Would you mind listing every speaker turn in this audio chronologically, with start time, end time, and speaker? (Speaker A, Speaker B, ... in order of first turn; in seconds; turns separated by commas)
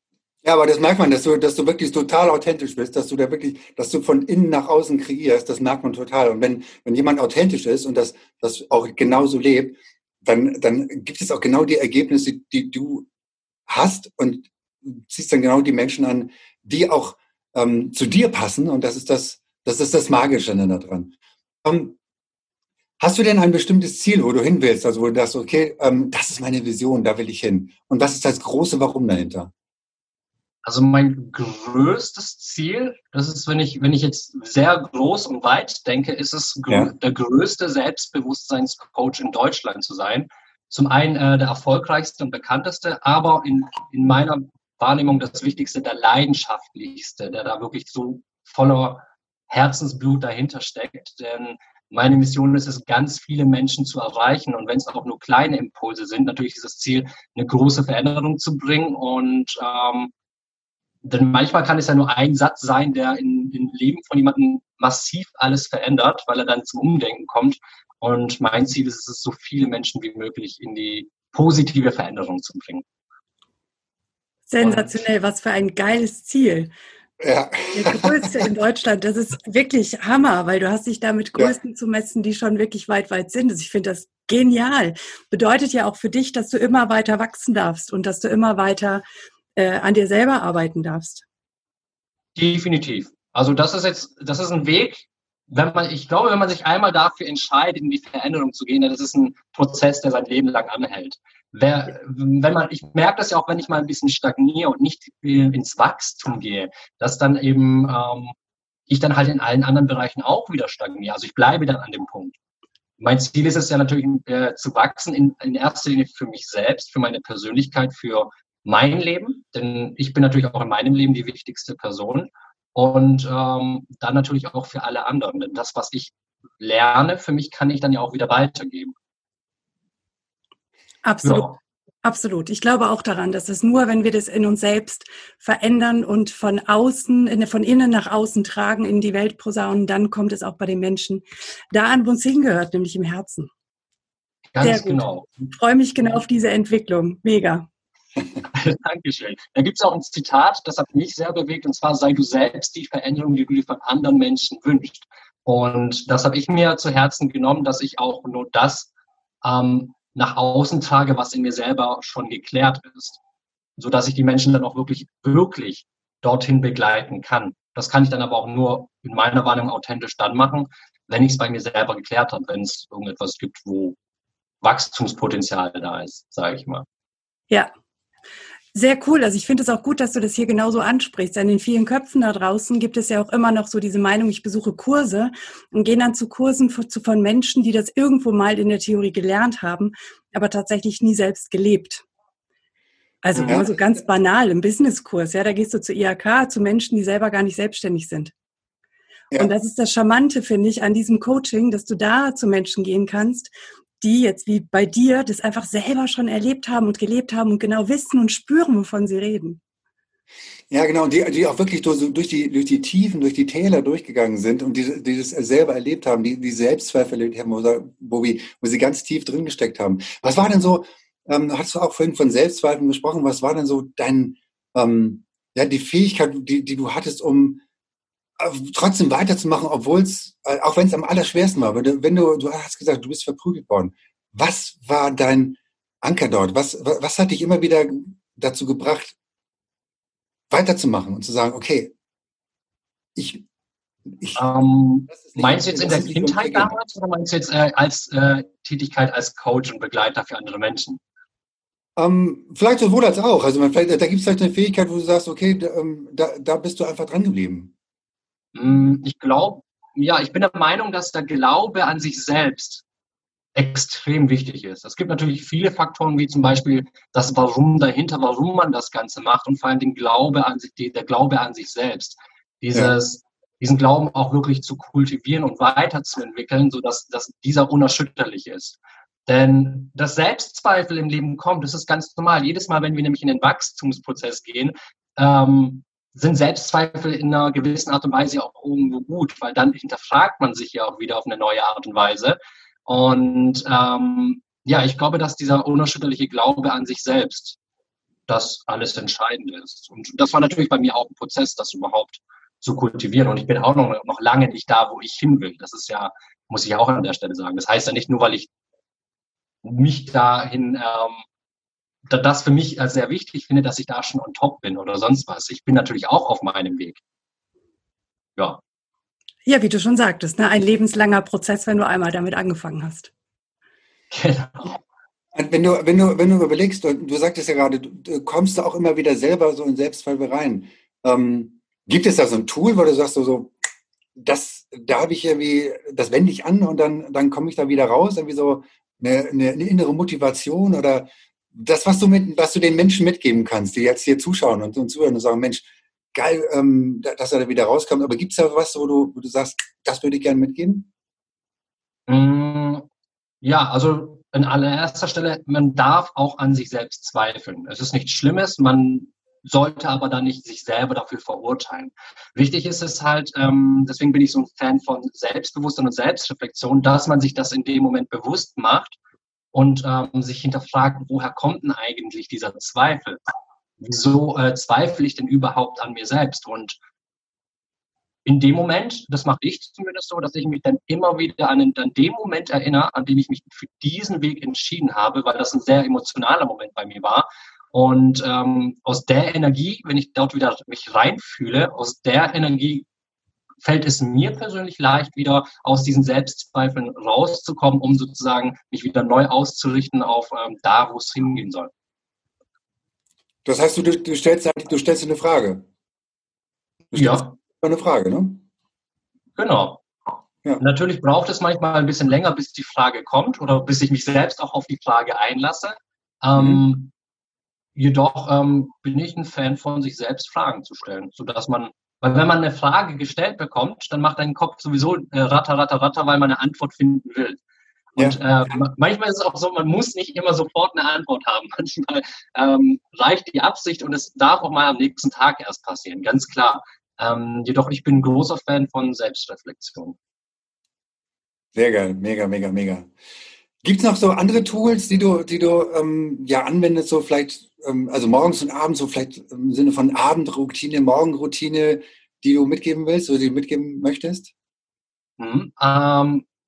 Speaker A: 0.4-13.1, Speaker A: 13.7-21.1, Speaker A: 21.6-22.0, Speaker A: 23.0-29.5, Speaker B: 30.6-60.1, Speaker B: 61.0-72.8, Speaker C: 74.5-76.7, Speaker B: 74.6-74.9, Speaker A: 77.2-78.5, Speaker C: 77.7-89.0, Speaker C: 89.5-91.2, Speaker B: 92.3-108.3, Speaker B: 108.9-112.3, Speaker B: 113.0-128.9, Speaker C: 131.0-131.5, Speaker B: 131.2-131.6, Speaker C: 132.0-143.5, Speaker B: 144.5-145.3, Speaker C: 144.6-147.7, Speaker B: 148.5-158.9, Speaker B: 159.4-163.2, Speaker B: 163.8-174.0, Speaker B: 174.6-176.8, Speaker C: 178.7-192.0, Speaker C: 193.2-198.3, Speaker A: 193.4-193.7, Speaker C: 199.3-209.6, Speaker A: 210.7-227.6, Speaker A: 228.4-239.1, Speaker A: 240.5-241.9, Speaker A: 243.2-243.4, Speaker A: 244.1-244.4, Speaker B: 244.3-251.0, Speaker A: 245.1-246.7, Speaker A: 251.9-257.7, Speaker B: 258.5-262.8, Speaker B: 263.5-297.6, Speaker B: 298.3-308.5, Speaker B: 309.6-311.2, Speaker B: 312.1-317.0, Speaker C: 319.4-323.1, Speaker B: 324.1-324.8, Speaker A: 325.3-333.5, Speaker A: 334.1-350.9, Speaker B: 352.1-352.9, Speaker B: 353.4-369.0, Speaker B: 369.5-373.2, Speaker B: 373.8-376.8, Speaker B: 378.2-392.9, Speaker B: 393.6-401.7, Speaker A: 403.4-405.6, Speaker A: 406.9-408.4, Speaker B: 406.9-407.3, Speaker B: 409.4-409.8, Speaker B: 410.6-416.9, Speaker A: 416.3-416.6, Speaker B: 417.8-427.4, Speaker B: 427.9-439.9, Speaker A: 428.0-428.6, Speaker A: 441.5-442.9, Speaker A: 443.6-454.3, Speaker B: 455.2-456.2